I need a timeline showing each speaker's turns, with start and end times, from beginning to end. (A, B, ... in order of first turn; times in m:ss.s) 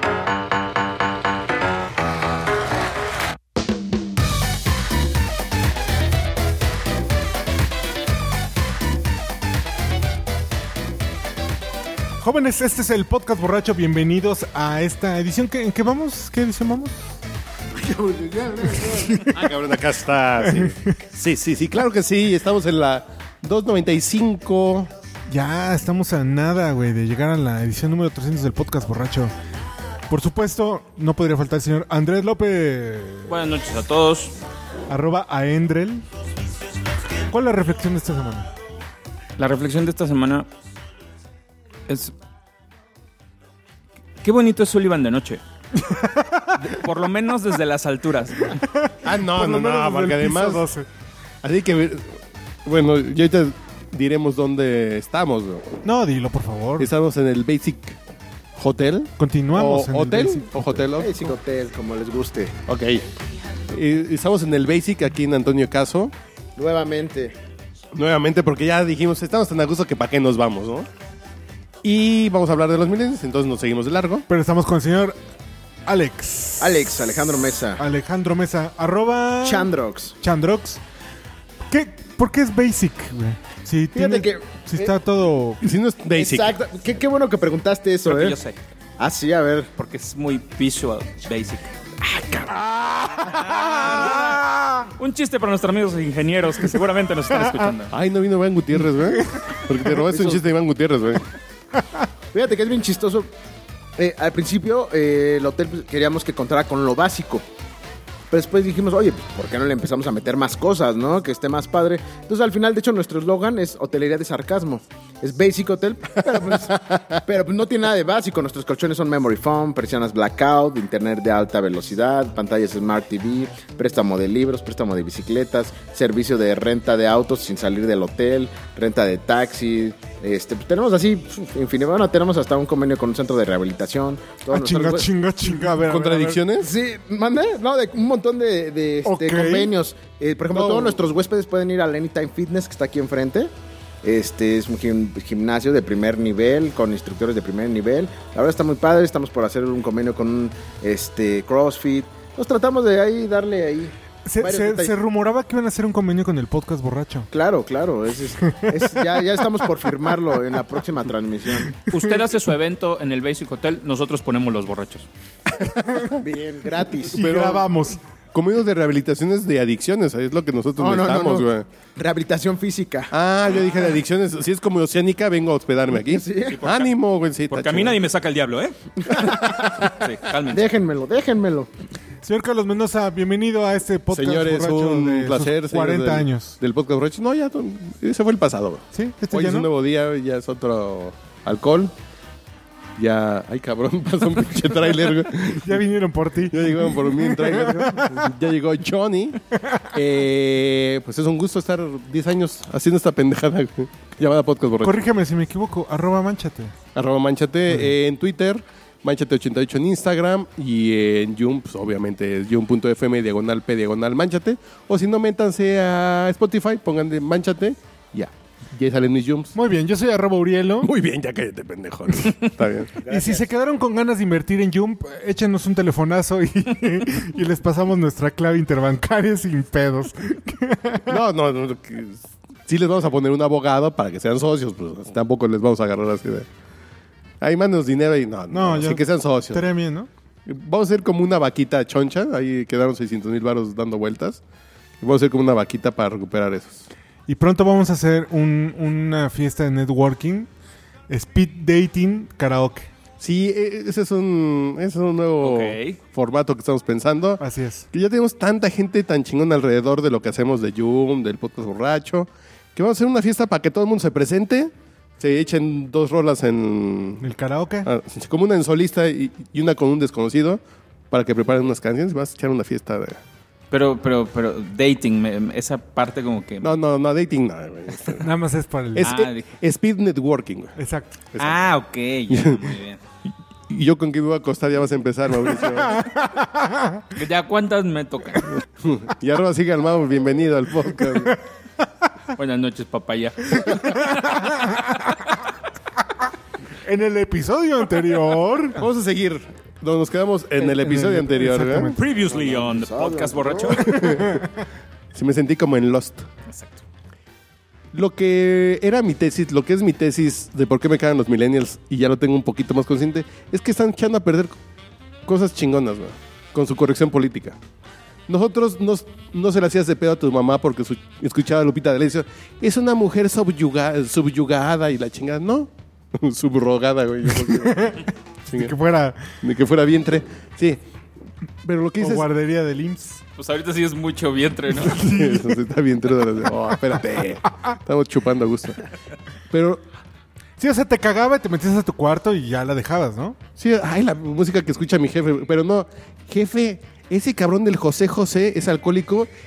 0:12.2-0:17.0 A
0:17.8-0:19.3 B
0:19.2-0:24.9 C
0:25.3-0:29.3 A
0:30.1-0:33.3 A
0:33.3-0:34.4 D
0:34.9-0:36.0 A
0:37.3-0:38.5 A
0:39.4-0:40.5 D
0:41.9-0:42.1 D
0:44.2-0:45.4 D
0:45.8-0:46.6 A
0:46.6-0:48.6 D
0:48.5-0:50.9 A
0:49.0-0:50.6 C
0:51.4-0:55.7 C
0:55.8-0:56.9 A
0:56.8-0:58.0 C
0:58.6-1:01.4 C
0:59.2-1:00.8 A
1:01.0-1:02.6 B
1:02.7-1:03.1 C
1:03.7-1:06.1 C
1:06.6-1:07.4 B
1:07.9-1:10.9 C
1:11.8-1:14.3 C
1:14.3-1:15.2 A
1:15.9-1:17.0 A
1:16.6-1:17.8 B
1:17.8-1:20.8 A
1:19.4-1:20.2 B
1:21.7-1:25.6 A
1:24.0-1:24.9 B
1:25.6-1:26.5 C
1:26.1-1:28.4 B
1:28.0-1:28.6 D
1:29.0-1:29.7 B
1:29.8-1:31.7 D
1:33.2-1:34.4 D
1:34.5-1:34.8 A
1:35.0-1:38.0 D
1:37.9-1:41.2 C
1:39.3-1:39.6 A
1:42.3-1:43.3 B
1:44.0-1:47.4 B
1:48.3-2:15.1 B
1:56.2-1:57.2 C
2:14.5-2:16.4 A
2:15.7-2:16.7 C
2:16.6-2:23.5 B
2:19.0-2:19.7 A
2:20.5-2:21.0 C
2:24.0-2:35.0 B
2:34.3-2:37.3 A
2:37.3-2:41.8 B
2:38.4-2:38.7 A
2:41.9-2:45.1 D
2:46.2-2:47.3 B
2:47.1-2:48.0 A
2:47.2-2:47.7 C
2:48.3-2:51.7 C
2:50.8-2:53.1 B
2:53.1-2:58.0 C
2:56.0-2:56.6 B
2:56.5-2:56.9 D
2:57.5-3:00.6 D
2:59.1-2:59.9 B
3:00.5-3:01.7 B
3:02.2-3:06.6 A
3:04.1-3:11.9 C
3:08.9-3:09.7 A
3:13.0-3:15.8 C
3:15.5-3:18.3 A
3:16.4-3:19.4 C
3:19.9-3:25.0 C
3:24.8-3:26.7 A
3:27.0-3:39.6 C
3:39.6-3:40.9 A
3:40.8-3:42.9 C
3:43.0-3:43.5 B
3:43.1-3:51.2 A
3:51.1-3:56.5 C
3:57.4-3:59.7 C
3:58.5-4:00.1 A
4:00.5-4:04.4 C
4:05.0-4:06.9 C
4:07.3-4:10.5 A
4:11.1-4:12.9 A
4:13.2-4:27.2 C
4:15.4-4:16.0 D
4:17.4-4:17.9 A
4:27.2-4:27.9 A
4:27.8-4:33.2 C
4:33.7-4:36.7 D
4:36.6-4:38.3 C
4:38.2-4:39.1 A
4:39.0-4:40.8 C
4:39.0-4:39.5 D
4:40.8-4:41.1 A
4:41.3-4:41.7 C
4:41.4-4:43.0 D
4:42.3-4:42.8 C
4:43.7-4:46.0 C
4:46.0-4:47.0 A
4:47.1-4:48.5 D
4:48.5-4:51.4 C
4:52.4-4:54.4 D
4:56.8-4:58.8 A
4:58.8-5:01.9 C
5:00.6-5:02.0 A
5:02.0-5:03.9 D
5:02.0-5:04.1 B
5:03.9-5:04.4 C
5:04.0-5:04.5 A
5:05.1-5:06.3 C
5:06.5-5:06.8 D
5:07.9-5:14.6 C
5:15.3-5:17.6 C
5:18.3-5:28.7 C
5:27.5-5:29.4 A
5:29.4-5:30.8 C
5:31.6-5:32.3 C
5:32.0-5:33.2 A
5:33.4-5:35.0 D
5:34.9-5:35.6 A
5:35.0-5:38.8 C
5:39.5-5:39.8 C
5:40.6-5:43.4 A
5:43.6-5:49.3 C